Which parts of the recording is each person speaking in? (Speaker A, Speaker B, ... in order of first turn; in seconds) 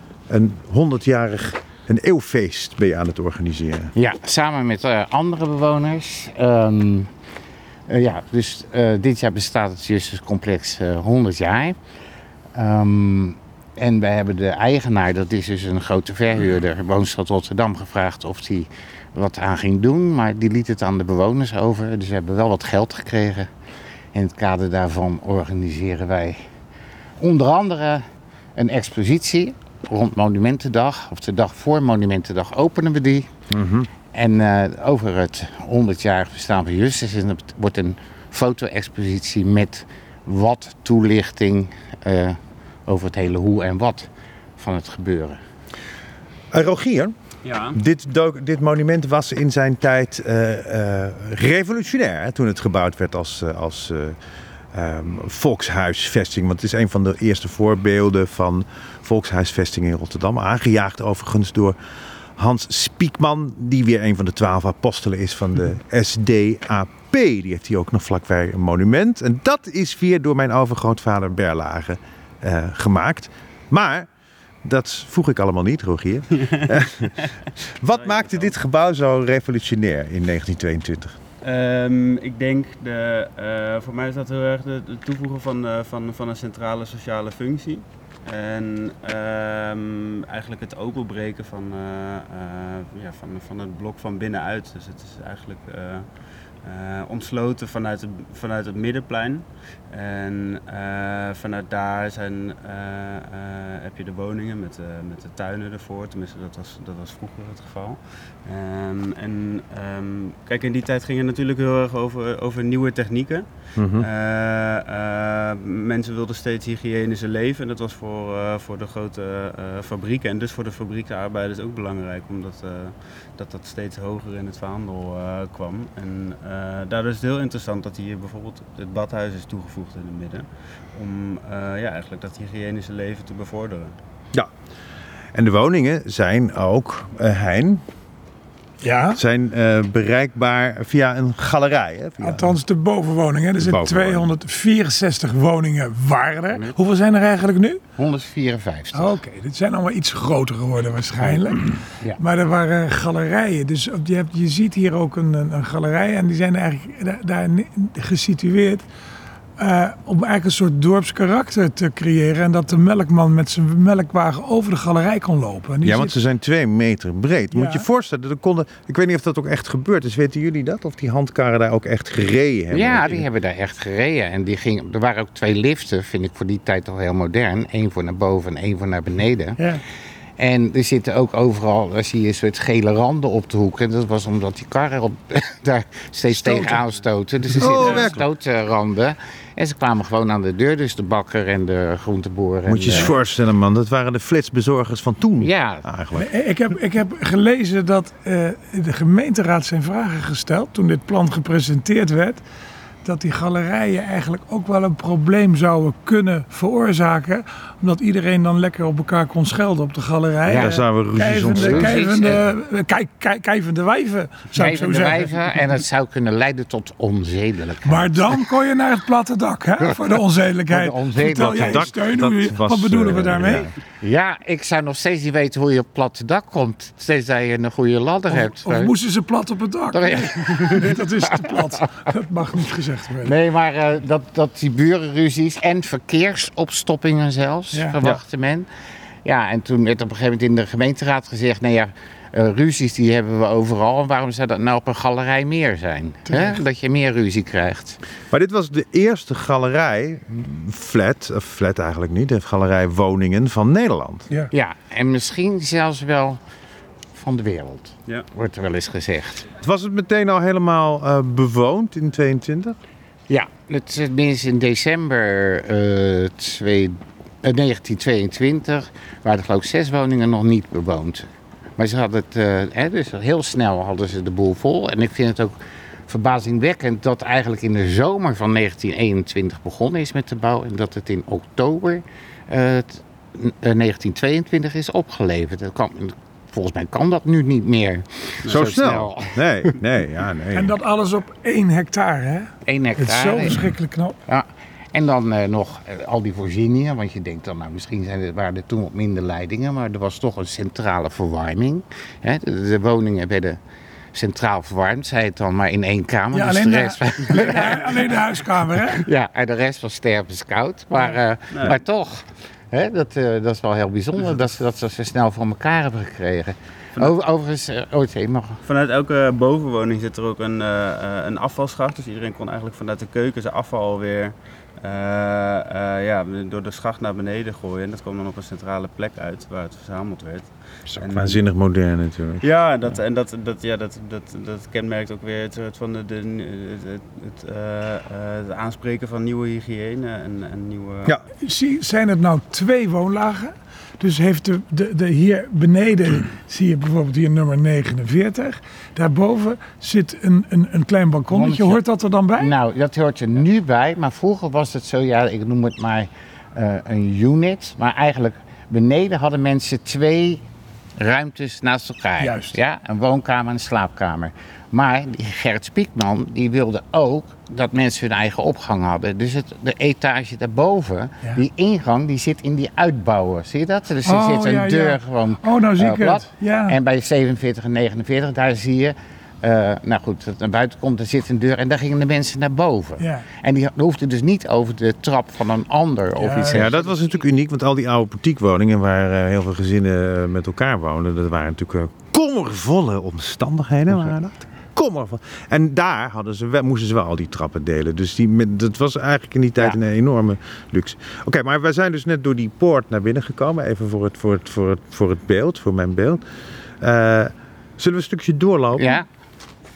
Speaker A: 0.3-3.9, 33.5-33.9, 46.5-47.1, 47.7-54.1, 54.7-61.8, 62.4-74.1, 74.6-77.3, 77.8-81.2, 113.8-114.1, 135.3-137.8, 139.1-142.5, 143.6-144.3, 165.8-173.2, 187.6-188.2, 192.7-196.3, 210.5-212.0, 221.3-223.7, 248.3-254.3, 259.6-262.8, 288.5-290.7, 330.9-333.0, 386.5-406.2, 406.8-409.0
Speaker B: 3.9-7.1, 7.9-11.8, 12.5-23.5, 24.1-26.4, 27.2-28.0, 28.6-33.3, 34.1-45.4, 148.0-149.2, 151.2-151.4, 172.7-179.6, 180.4-193.2, 195.4-195.8, 210.4-210.8, 211.5-212.4, 214.5-218.4, 219.8-220.2, 220.7-221.9, 224.0-228.9, 229.9-231.8, 233.2-238.7, 239.2-248.0, 254.5-256.4, 257.1-259.5, 263.3-275.5, 276.1-289.4, 292.6-293.6, 294.3-303.6, 304.1-318.6, 351.3-351.8, 352.4-360.4, 361.0-387.0, 408.8-409.1
Speaker C: 47.4-47.8, 77.9-78.5, 81.4-133.9, 318.6-331.4, 332.4-341.1
Speaker D: 138.8-139.2, 142.2-147.8, 148.9-158.8, 159.6-166.1, 167.5-167.8, 186.4-186.7, 196.2-202.4, 203.0-215.6, 217.8-223.7, 228.3-233.3, 246.3-246.5, 290.5-294.2, 306.3-309.0, 341.4-352.5, 362.2-362.6, 374.0-376.8, 383.0-383.2, 386.2-386.7